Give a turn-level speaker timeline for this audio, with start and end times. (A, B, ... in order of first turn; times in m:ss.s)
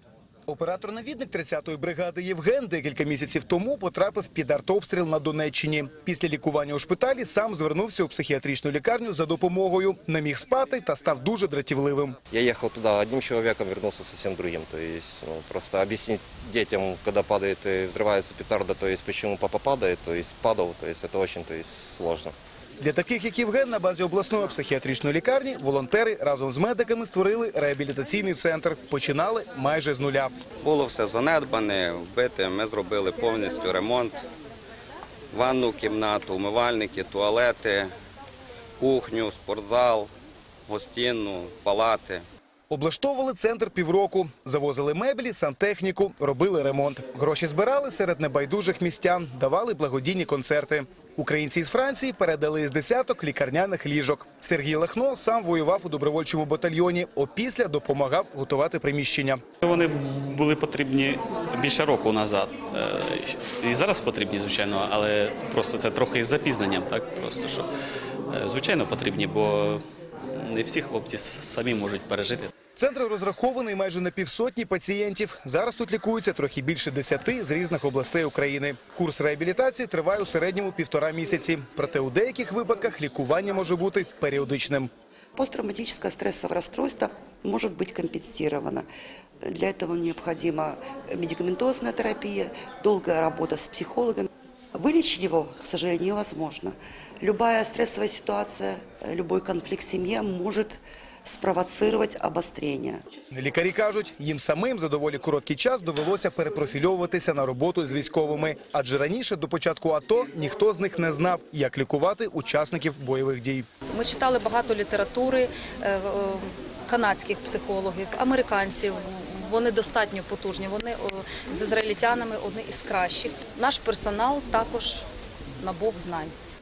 0:00.5-0:12.2 A
0:12.3-0:22.3 B
0:22.8-0:30.3 A
0:30.6-0:34.2 C
0:35.3-0:37.9 C
0:38.8-0:40.1 C
0:40.7-0:42.2 C
0:42.7-0:59.4 A
0:59.6-1:07.7 D
1:08.3-1:09.8 D
1:10.4-1:12.5 D
1:12.8-1:24.9 A
1:25.4-1:28.8 E
1:29.4-1:43.1 E
1:43.3-1:53.7 A
1:53.9-2:05.0 F
2:05.6-2:06.3 F